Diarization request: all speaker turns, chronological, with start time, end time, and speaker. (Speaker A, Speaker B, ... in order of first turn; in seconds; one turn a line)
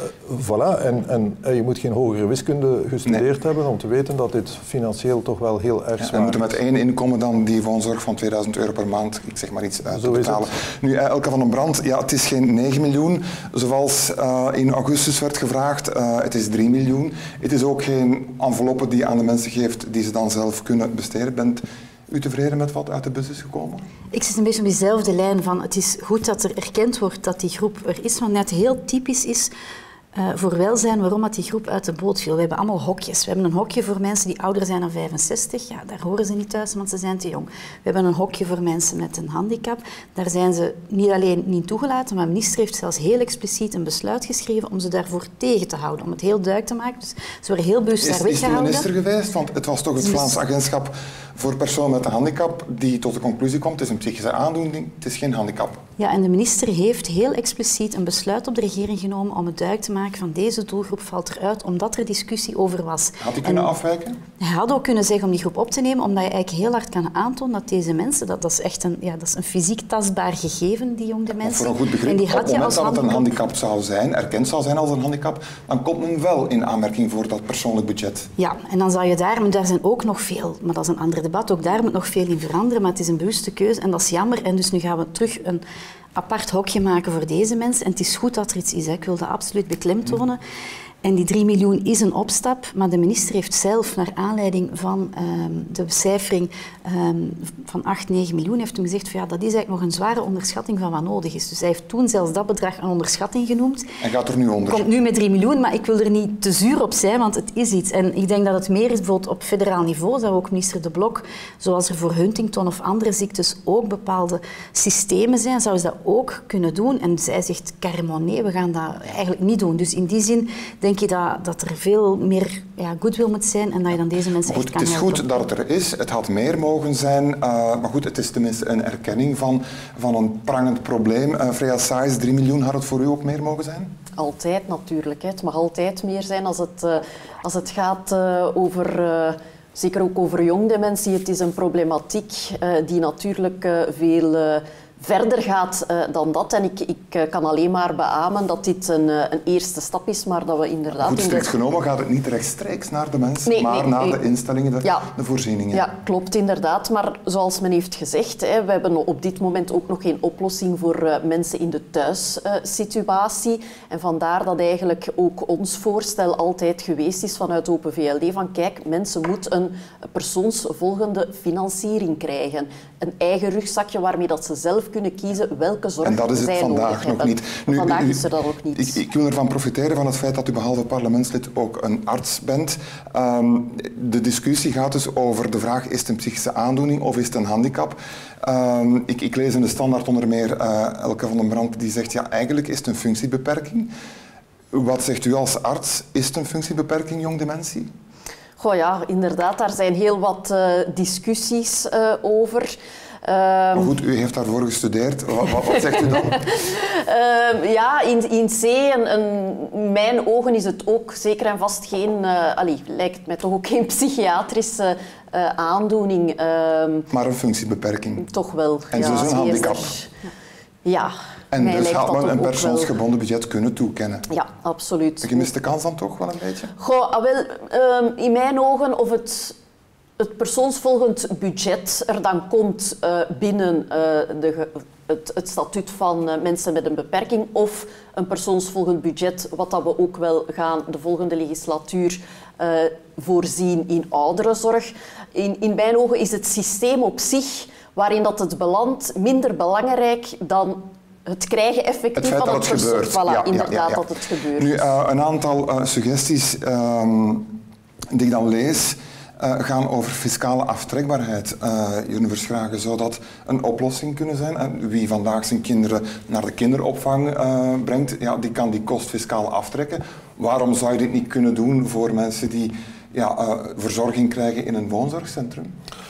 Speaker A: 0.2-6.5
Speaker B: 6.0-23.8
Speaker A: 9.9-10.5
Speaker C: 24.1-29.5
Speaker C: 30.1-48.9
Speaker B: 48.0-55.8
Speaker C: 50.0-50.3
Speaker C: 56.0-63.7
Speaker B: 63.2-64.2
Speaker C: 64.4-73.3
Speaker B: 71.4-78.3
Speaker C: 78.4-85.6
Speaker C: 86.1-90.4
Speaker C: 91.0-103.9
Speaker B: 104.0-104.9
Speaker C: 104.7-125.4
Speaker B: 124.5-133.9
Speaker D: 134.2-151.5
Speaker B: 151.0-155.9
Speaker D: 153.4-154.2
Speaker D: 154.8-155.1
Speaker D: 155.7-179.0
Speaker B: 176.0-178.2
Speaker B: 178.7-193.9
Speaker B: 194.7-197.9
Speaker D: 198.6-203.9
Speaker B: 203.7-206.5
Speaker D: 206.2-217.1
Speaker B: 217.1-218.2
Speaker D: 218.2-220.3
Speaker B: 218.9-219.9
Speaker D: 220.8-222.9
Speaker B: 221.5-224.2
Speaker D: 224.3-225.5
Speaker B: 225.2-226.7
Speaker D: 226.8-229.6
Speaker D: 230.2-254.9
Speaker B: 252.2-254.0
Speaker B: 254.6-257.5
Speaker B: 258.1-275.7